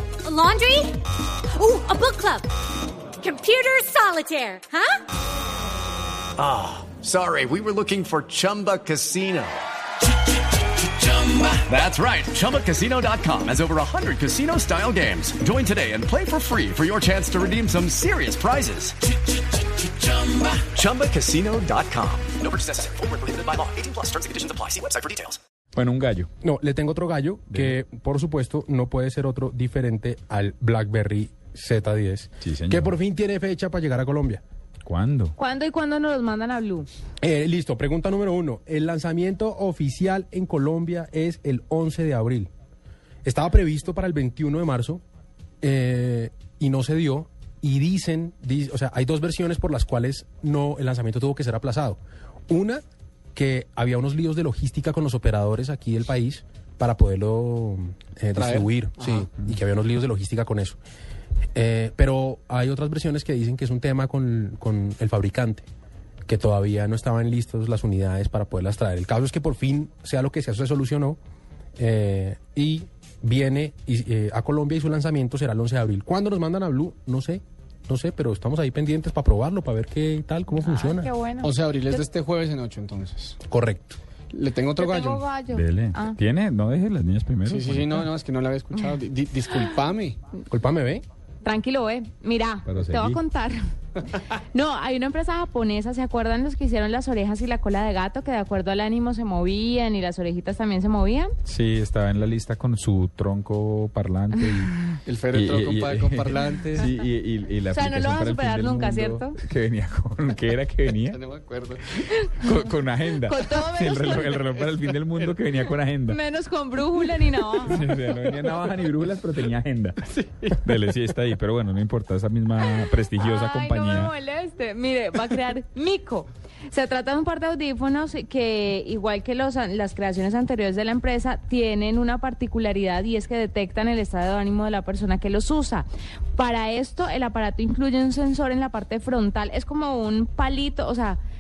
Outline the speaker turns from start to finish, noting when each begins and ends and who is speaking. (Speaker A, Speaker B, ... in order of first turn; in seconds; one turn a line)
Speaker A: 0.2-2.5
Speaker A: 3.2-5.0
Speaker B: 6.4-9.6
Speaker B: 11.0-19.0
Speaker B: 19.8-25.4
Speaker C: 25.8-26.3
Speaker D: 26.4-34.4
Speaker C: 27.5-27.8
Speaker C: 32.4-32.9
Speaker C: 34.9-35.4
Speaker E: 35.4-36.9
Speaker D: 37.2-42.5
Speaker D: 43.2-45.0
Speaker D: 45.6-52.8
Speaker D: 53.3-60.8
Speaker F: 58.4-59.3
Speaker D: 61.5-65.7
Speaker D: 66.3-71.2
Speaker D: 71.8-81.1
Speaker E: 80.6-82.0
Speaker F: 81.4-83.4
Speaker D: 83.5-84.0
Speaker F: 84.3-85.2
Speaker E: 84.8-86.2
Speaker C: 85.5-88.1
Speaker F: 87.5-90.2
Speaker D: 90.5-91.0
Speaker E: 91.4-93.6
Speaker C: 92.7-93.2
Speaker E: 94.5-101.3
Speaker C: 101.5-111.2
Speaker F: 105.0-106.9
Speaker E: 107.7-109.4
Speaker F: 111.0-112.0
Speaker E: 112.1-112.6
Speaker C: 112.4-116.2
Speaker E: 113.2-114.7
Speaker E: 116.1-117.9
Speaker C: 117.6-124.1
Speaker F: 120.2-120.5
Speaker E: 123.2-141.2